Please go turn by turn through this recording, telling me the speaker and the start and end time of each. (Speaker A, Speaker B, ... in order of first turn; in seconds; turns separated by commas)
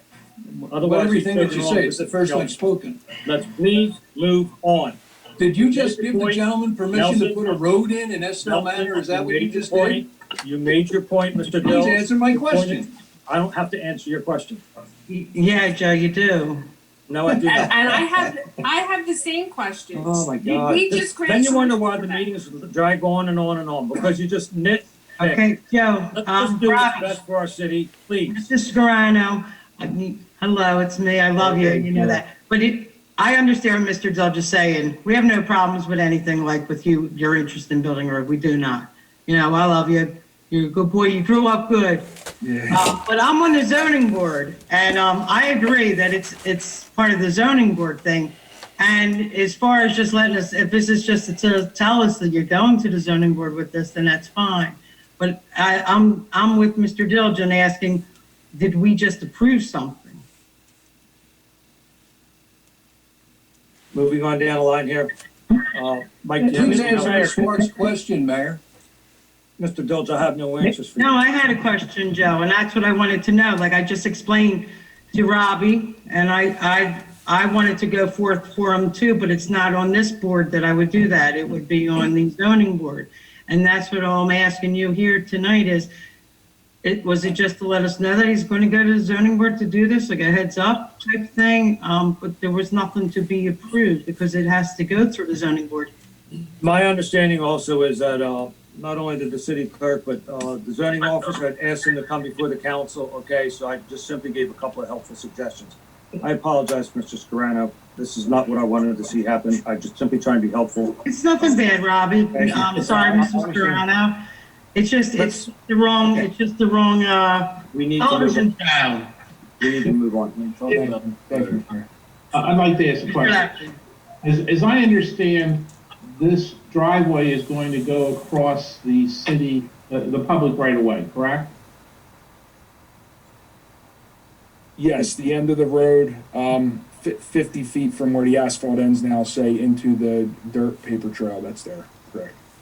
Speaker A: 0.7-2.5, Speaker B: 0.8-3.0, Speaker A: 3.2-5.0, Speaker B: 5.4-10.0, Speaker A: 5.7-6.4, Speaker A: 6.9-7.4, Speaker A: 8.4-14.6, Speaker B: 11.6-12.9, Speaker C: 15.1-16.6, Speaker A: 17.1-18.3, Speaker D: 17.4-22.2, Speaker A: 19.9-25.4, Speaker C: 25.2-27.2, Speaker A: 26.1-28.4, Speaker C: 28.3-42.1, Speaker E: 31.6-32.1, Speaker E: 42.4-42.9, Speaker C: 42.7-60.2, Speaker A: 63.9-67.6, Speaker B: 66.4-68.6, Speaker A: 69.6-71.1, Speaker C: 70.9-85.9, Speaker C: 86.8-95.9, Speaker A: 96.6-111.0, Speaker C: 111.0-119.1, Speaker A: 112.3-113.8, Speaker A: 117.7-118.5, Speaker A: 119.6-121.6, Speaker E: 120.6-121.9, Speaker F: 122.3-123.6, Speaker C: 123.2-123.8, Speaker F: 124.2-131.6, Speaker E: 134.8-142.3